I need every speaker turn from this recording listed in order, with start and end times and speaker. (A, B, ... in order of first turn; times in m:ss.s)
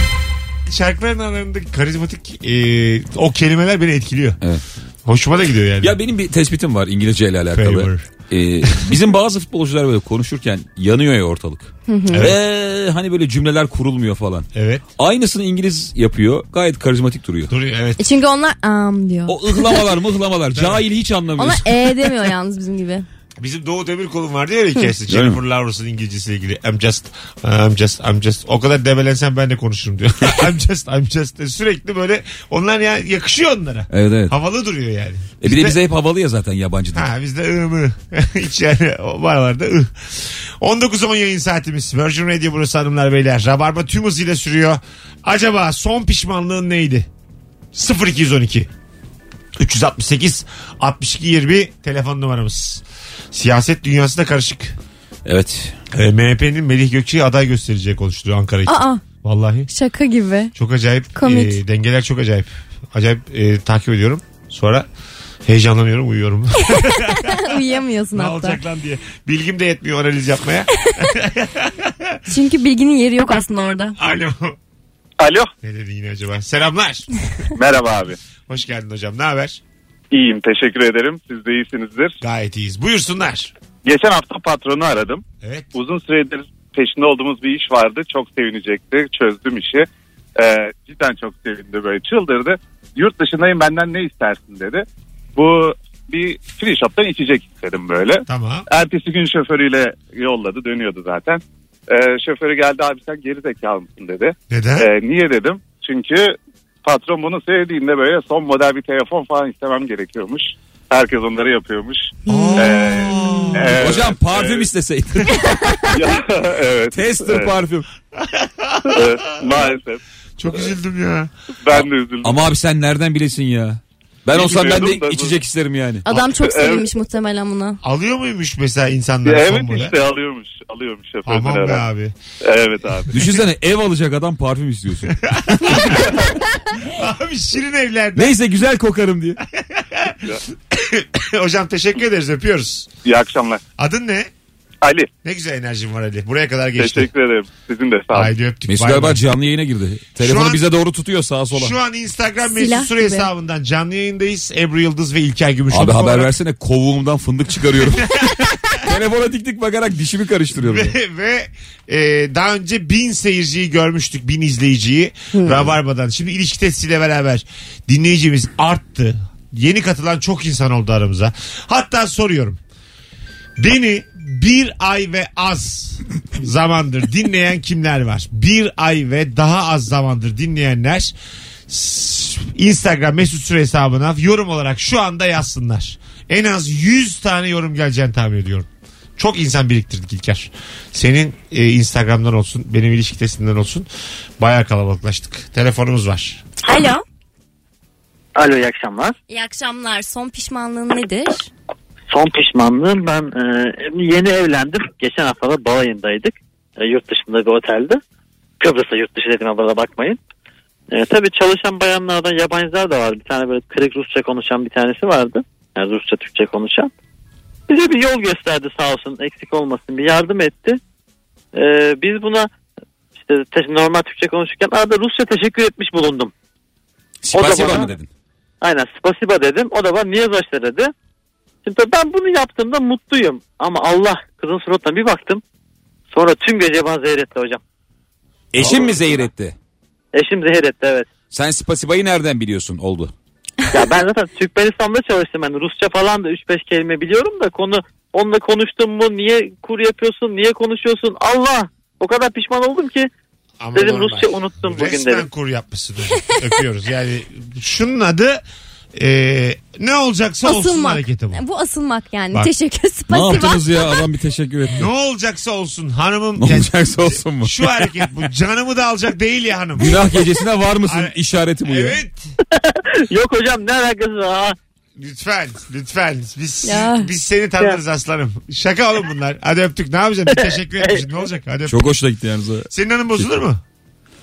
0:00.7-0:04.4 A
0:05.0-0:06.0 A
0:05.8-0:17.5 B
0:07.5-0:08.1 A
0:08.7-0:08.9 A
0:11.9-0:12.3 C
0:12.1-0:12.4 A
0:14.5-0:14.8 A
0:17.5-0:18.0 A
0:18.0-0:19.9 C
0:19.3-0:22.1 B
0:20.5-0:20.8 A
0:21.4-0:23.0 C
0:23.4-0:35.8 A
0:25.1-0:25.4 B
0:33.9-0:34.3 B
0:35.4-0:37.1 B
0:36.9-0:47.1 A
0:47.7-0:48.7 A
0:49.6-0:54.8 A
0:55.2-0:55.8 B
0:55.9-0:59.7 A
0:58.6-0:59.0 C
0:59.7-1:00.5 C
1:00.6-1:04.9 A
1:01.2-1:01.6 C
1:05.4-1:07.6 A
1:06.7-1:08.6 C
1:08.1-1:12.2 A
1:12.3-1:14.0 C
1:14.0-1:14.6 A
1:15.2-1:15.5 D
1:15.6-1:17.1 A
1:17.5-1:18.2 D
1:18.5-1:19.6 A
1:20.1-1:22.2 D
1:22.2-1:23.5 A
1:23.8-1:25.2 D
1:25.4-1:25.7 A
1:25.7-1:54.7 D
1:38.3-1:38.7 A
1:44.5-1:44.9 A
1:52.3-1:54.0 A
1:52.3-1:52.7 C
1:53.7-1:55.8 B
1:55.9-1:57.5 D
1:56.9-1:57.9 B
1:58.2-1:59.6 A
1:58.9-2:00.7 D
2:00.4-2:01.3 A
2:01.6-2:02.5 D
2:02.2-2:06.0 B
2:04.3-2:05.4 D
2:06.0-2:07.8 C
2:06.1-2:06.8 D
2:07.8-2:09.9 A
2:09.2-2:11.9 D
2:11.2-2:12.1 A
2:12.4-2:13.2 D
2:13.1-2:15.1 B
2:15.2-2:16.2 A
2:16.8-2:18.3 A
2:18.2-2:19.4 B
2:19.5-2:22.9 A
2:23.0-2:23.6 D
2:23.8-2:24.3 A
2:24.8-2:25.1 D
2:25.2-2:27.1 A
2:26.8-2:28.3 D
2:28.1-2:29.2 A
2:28.7-2:31.7 B
2:30.2-2:30.6 A
2:31.5-2:36.3 A
2:32.5-2:33.3 C
2:35.7-2:40.9 B
2:38.0-2:38.4 A
2:40.6-2:52.6 A
2:53.6-3:01.1 A
3:01.7-3:13.9 A
3:14.4-3:16.4 A
3:16.6-3:17.0 C
3:18.4-3:19.2 E
3:19.3-3:21.5 C
3:22.1-3:28.0 E
3:28.6-3:30.2 E
3:30.9-3:36.9 E
3:37.7-3:40.8 E
3:41.5-3:42.5 E
3:43.2-3:46.3 E
3:47.2-3:48.1 B
3:47.3-3:47.9 E
3:48.6-3:50.9 E
3:51.6-3:55.4 E
3:56.1-3:57.6 E
3:58.5-3:59.5 B
4:00.1-4:01.1 E
4:01.3-4:03.1 B
4:03.7-4:13.1 E
4:13.6-4:18.4 A
4:13.7-4:15.3 E
4:18.9-4:21.4 A
4:20.4-4:23.7 C
4:23.1-4:24.9 B
4:24.7-4:30.0 A
4:26.4-4:28.0 B
4:29.8-4:32.0 B
4:30.8-4:32.3 A
4:32.6-4:34.6 E
4:35.0-4:41.9 A
4:36.6-4:37.1 C
4:40.3-4:41.1 E
4:41.7-4:43.4 B
4:42.7-4:43.6 A